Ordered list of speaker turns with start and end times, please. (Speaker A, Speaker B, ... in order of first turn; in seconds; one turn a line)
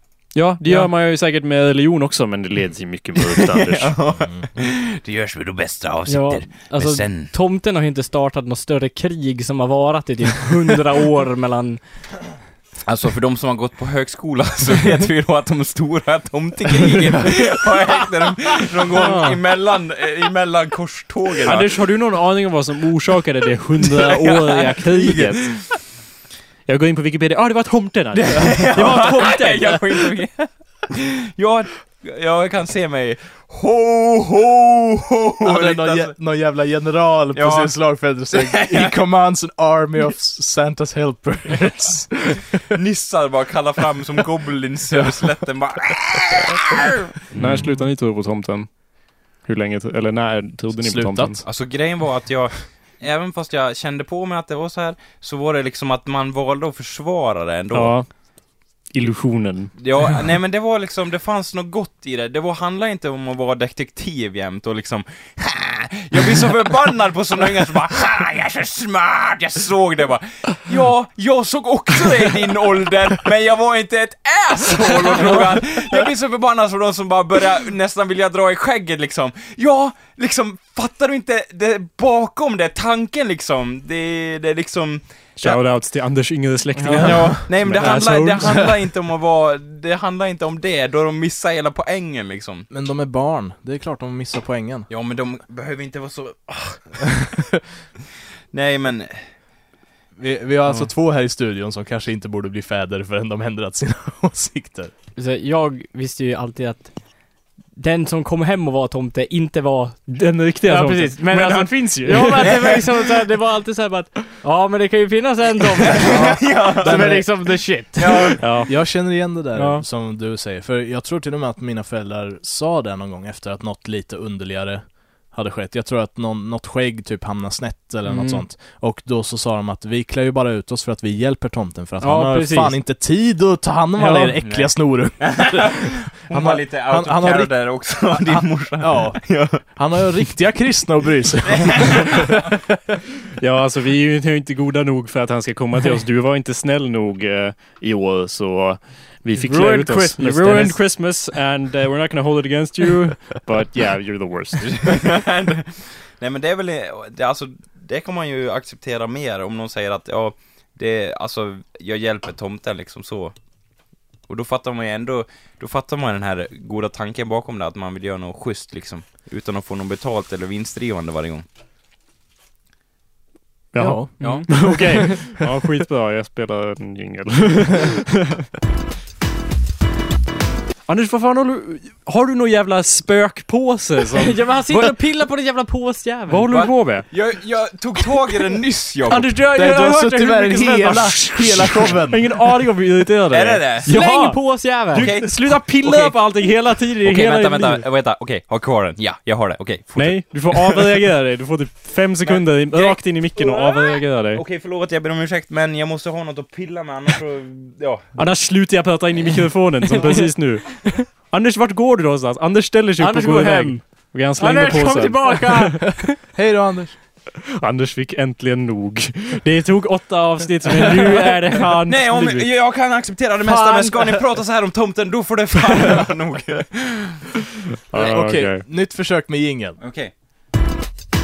Speaker A: 0.3-4.0
Speaker B: 0.6-0.9
Speaker C: 3.4-7.3
Speaker B: 6.1-11.8
Speaker C: 12.8-21.8
Speaker A: 19.1-19.3
Speaker A: 21.4-25.5
Speaker C: 23.8-25.7
Speaker A: 26.7-29.9
Speaker C: 28.1-36.1
Speaker D: 35.4-42.7
Speaker C: 37.3-37.7
Speaker C: 38.3-39.0
Speaker C: 42.7-47.7
Speaker A: 47.3-48.7
Speaker A: 49.5-51.4
Speaker D: 50.8-51.4
Speaker C: 51.4-58.0
Speaker A: 57.7-58.1
Speaker A: 58.9-59.7
Speaker C: 59.8-85.6
Speaker A: 85.4-88.7
Speaker B: 86.8-87.3
Speaker C: 87.0-92.7
Speaker D: 92.7-94.9
Speaker C: 94.9-97.2
Speaker C: 98.5-99.2
Speaker D: 100.2-104.9
Speaker B: 105.2-107.0
Speaker B: 107.8-118.4
Speaker A: 110.1-112.7
Speaker C: 116.0-117.2
Speaker D: 116.8-142.6
Speaker C: 118.0-118.6
Speaker A: 118.4-118.7
Speaker B: 119.6-119.8
Speaker B: 128.1-128.4
Speaker B: 132.0-132.8
Speaker B: 134.0-134.3
Speaker C: 134.4-139.6
Speaker C: 141.6-142.2
Speaker A: 143.4-154.9
Speaker B: 149.3-150.8
Speaker C: 154.6-163.4
Speaker C: 164.3-171.4
Speaker A: 173.7-178.4
Speaker D: 173.8-174.1
Speaker B: 174.2-175.1
Speaker C: 174.2-174.7
Speaker A: 180.9-185.0
Speaker B: 184.2-186.5
Speaker A: 186.3-187.1
Speaker C: 186.5-189.3
Speaker A: 189.1-197.8
Speaker D: 189.5-192.4
Speaker C: 193.3-193.9
Speaker B: 193.9-195.1
Speaker C: 194.9-200.9
Speaker A: 200.0-204.4
Speaker C: 202.2-208.1
Speaker A: 208.2-215.8
Speaker B: 213.0-213.8
Speaker B: 214.4-216.2
Speaker D: 216.3-216.9
Speaker A: 217.6-222.5
Speaker C: 221.9-227.2
Speaker B: 223.4-224.2
Speaker A: 227.9-228.6
Speaker D: 227.9-229.8
Speaker C: 229.8-230.1